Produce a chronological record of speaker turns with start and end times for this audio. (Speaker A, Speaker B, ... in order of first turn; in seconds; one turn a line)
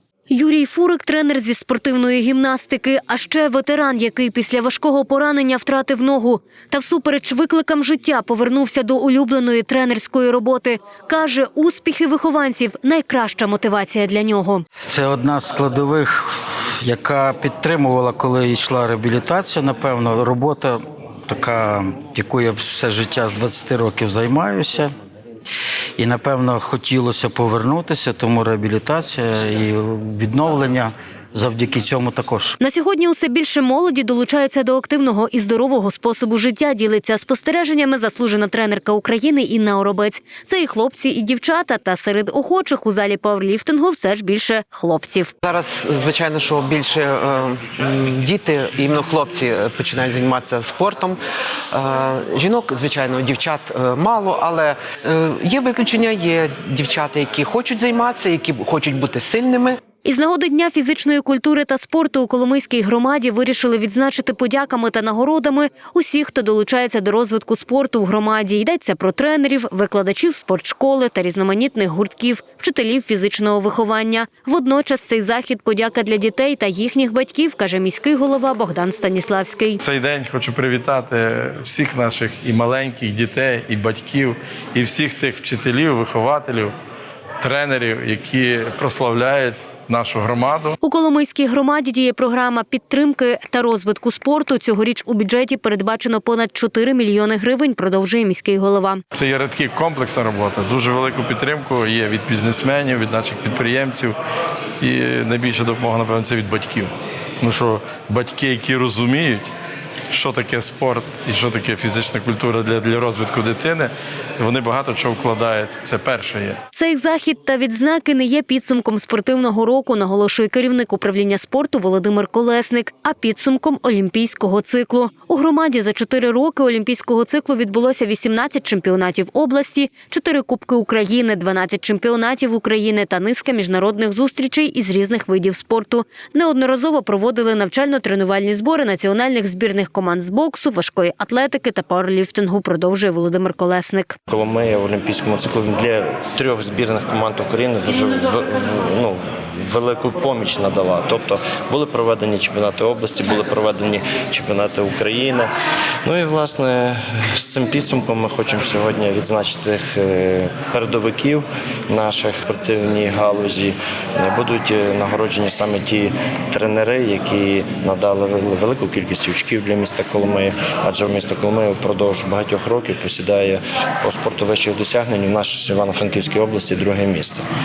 Speaker A: 0.3-14.7
Speaker B: 14.8-24.9
Speaker B: 26.0-32.5
Speaker A: 32.6-45.3
Speaker C: 45.4-51.2
Speaker C: 51.7-59.8
Speaker A: 60.0-79.8
Speaker D: 79.8-86.7
Speaker D: 87.4-90.7
Speaker A: 90.8-99.0
Speaker D: 99.1-104.1
Speaker D: 104.8-109.5
Speaker D: 110.1-116.6
Speaker A: 116.7-144.2
Speaker E: 144.3-155.5
Speaker E: 156.0-177.4